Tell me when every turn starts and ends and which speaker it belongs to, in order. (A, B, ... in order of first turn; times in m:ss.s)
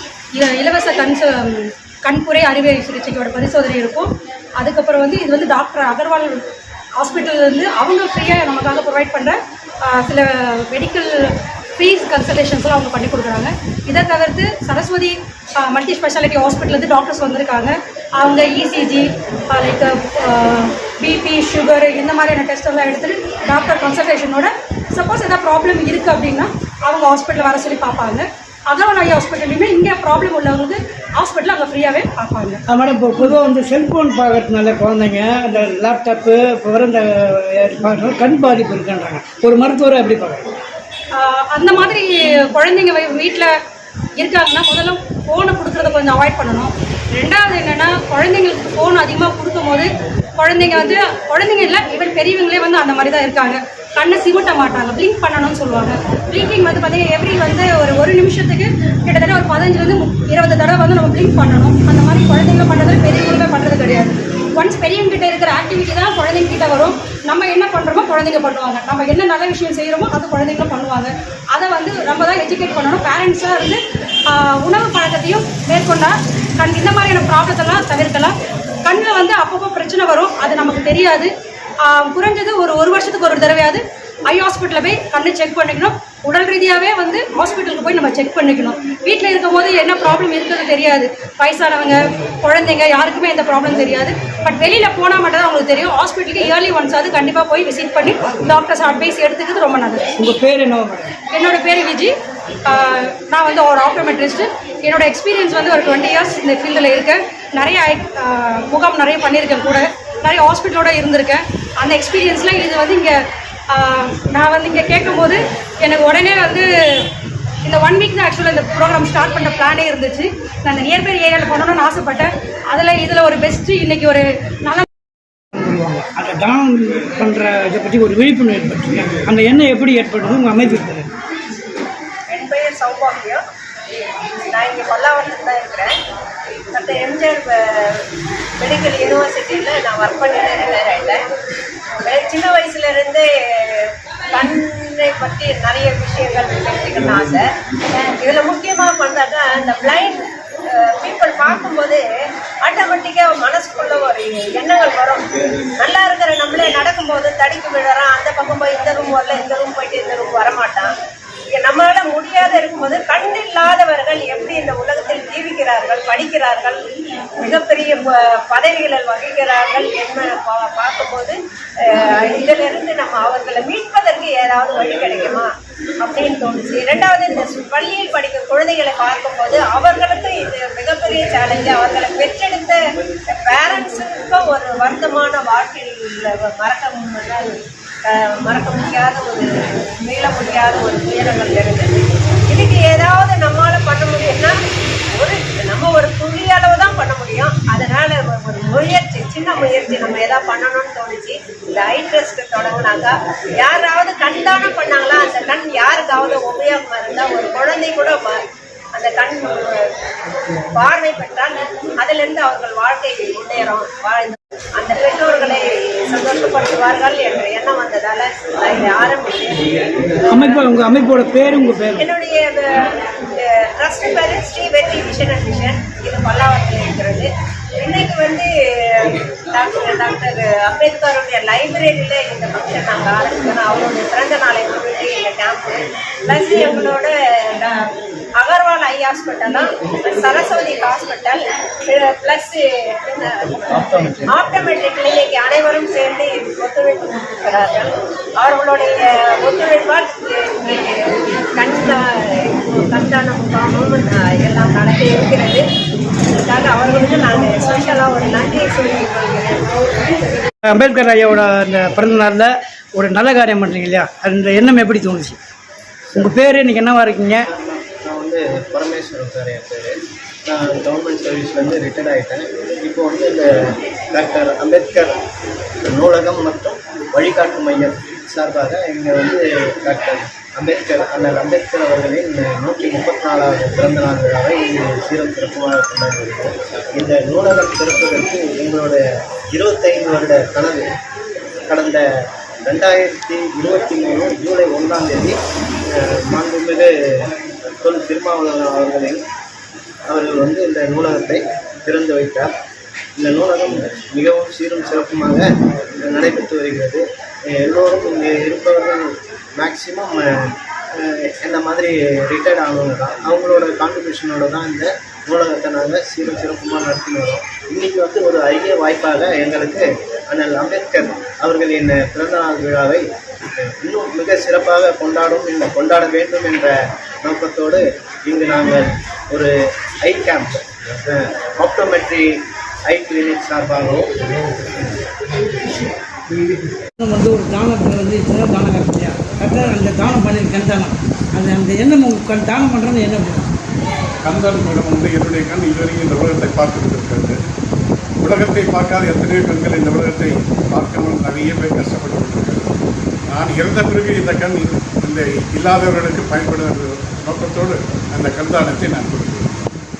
0:00.3-0:06.4 A
0:07.0-0:32.6 A
0:32.7-0:40.5 B
0:41.1-0:43.5 A
0:44.2-1:21.3 A
1:21.8-1:40.0 A
1:40.2-1:41.1 B
1:41.3-1:42.1 A
1:42.6-1:57.1 A
1:57.6-2:04.8 A
2:05.5-2:11.1 B
2:12.3-2:13.4 C
2:14.5-2:15.9 C
2:16.7-2:18.0 C
2:18.6-2:21.2 C
2:22.0-2:32.0 C
2:32.6-2:40.9 C
2:41.6-2:46.8 C
2:47.4-2:55.5 C
2:56.0-3:28.3 C
3:28.9-3:29.9 C
3:30.7-3:40.7 C
3:40.4-3:42.0 B
3:42.0-3:42.7 C
3:43.4-3:47.3 C
3:47.8-3:57.9 C
3:58.4-4:15.6 C
4:03.7-4:04.2 D
4:16.4-4:20.3 C
4:20.6-4:25.4 B
4:26.1-4:26.4 D
4:26.2-4:27.4 B
4:27.3-4:33.5 D
4:34.1-4:35.2 D
4:35.8-4:50.9 D
4:51.7-4:52.0 D
4:52.6-4:55.4 D
4:55.9-4:59.2 D
5:00.1-5:02.5 D
5:03.2-5:32.3 D
5:32.9-5:35.0 D
5:37.0-5:43.5 B
5:44.2-5:47.4 E
5:48.2-5:52.6 E
5:53.3-5:59.7 E